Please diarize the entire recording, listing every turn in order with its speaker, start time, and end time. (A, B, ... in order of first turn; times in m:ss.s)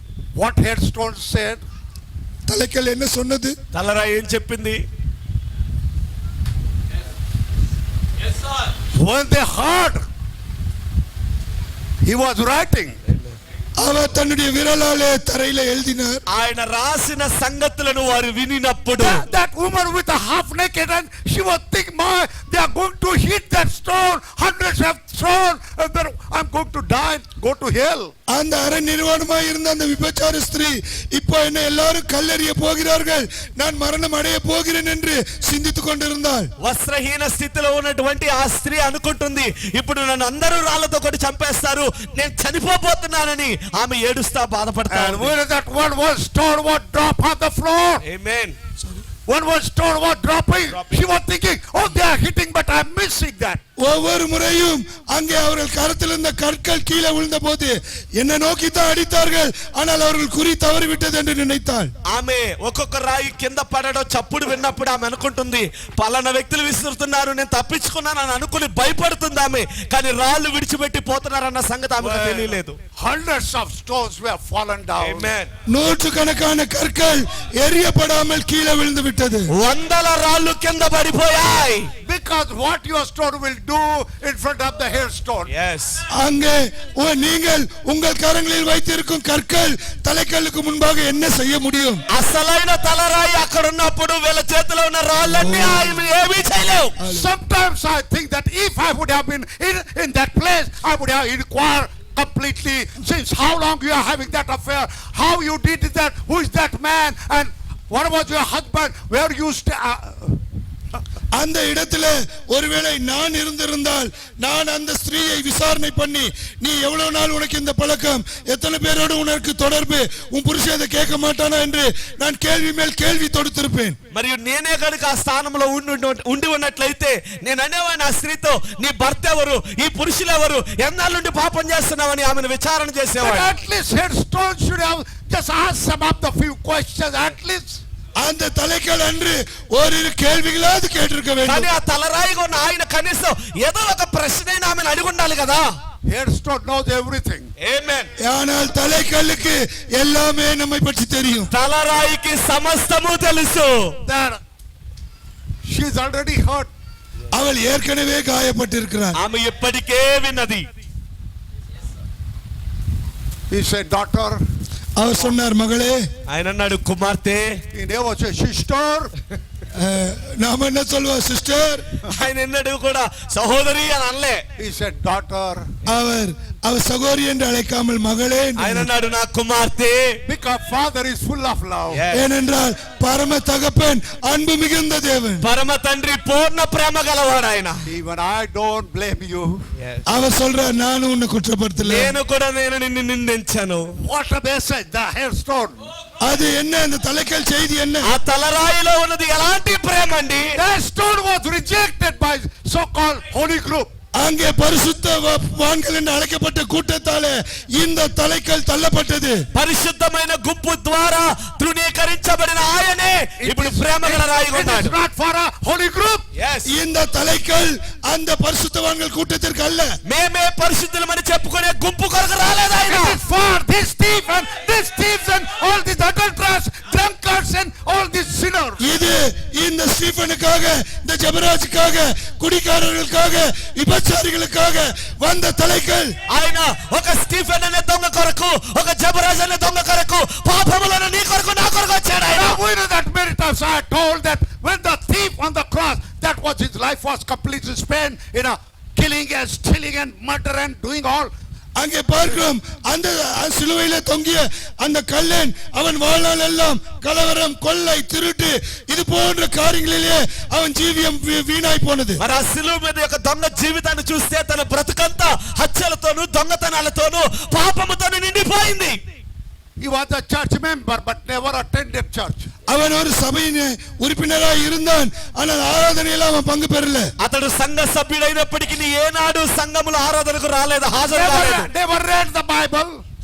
0:00.4-0:01.6 A
0:02.5-0:03.5 B
0:03.7-0:04.8 C
0:08.9-0:10.0 A
0:12.0-0:13.0 A
0:13.8-0:16.2 B
0:16.3-0:19.2 C
0:19.0-0:28.1 A
0:28.3-0:36.5 B
0:36.6-0:45.3 C
0:44.9-0:48.0 A
0:48.0-0:48.6 C
0:49.3-0:53.6 A
0:50.7-0:51.1 C
0:53.8-1:01.9 B
1:02.1-1:12.8 C
1:12.0-1:15.3 A
1:15.0-1:15.5 C
1:15.7-1:19.5 B
1:19.5-1:21.9 C
1:22.0-1:25.5 A
1:25.5-1:26.0 C
1:26.1-1:32.0 B
1:32.1-1:36.9 C
1:35.2-1:35.9 B
1:37.0-1:37.2 B
1:37.0-1:50.4 A
1:51.4-2:04.0 B
2:04.1-2:13.5 C
2:13.2-2:17.8 A
2:18.2-2:21.7 B
2:21.4-2:25.7 C
2:26.1-2:27.5 A
2:27.6-2:28.1 C
2:28.2-2:31.5 B
2:31.5-2:34.0 C
2:34.0-2:34.4 A
2:35.7-2:36.7 A
2:37.3-2:39.2 B
2:39.2-2:40.6 C
2:43.5-2:44.4 A
2:45.0-2:46.0 B
2:46.3-2:47.6 C
2:47.7-2:49.1 A
2:49.7-2:51.8 B
2:52.0-2:54.4 C
2:54.6-2:55.7 A
2:55.8-2:58.9 B
2:58.6-3:00.2 C
3:00.3-3:02.0 A
3:01.9-3:02.2 C
3:02.1-3:05.4 B
3:05.4-3:07.8 C
3:07.9-3:09.6 A
3:09.8-3:10.0 C
3:10.1-3:12.1 B
3:11.8-3:13.9 C
3:14.0-3:15.8 A
3:16.2-3:18.1 B
3:18.0-3:20.6 C
3:20.5-3:23.9 A
3:24.2-3:29.4 B
3:29.5-3:34.9 C
3:33.4-3:36.3 A
3:36.4-3:36.7 C
3:36.7-3:39.9 B
3:40.0-3:43.2 C
3:42.9-3:48.8 A
3:48.8-3:56.2 B
3:56.3-4:02.6 C
4:02.3-4:11.3 A
4:11.8-4:22.2 B
4:22.2-4:29.0 C
4:29.8-4:32.5 A
4:32.7-4:37.1 B
4:37.2-4:41.7 C
4:41.1-4:43.0 A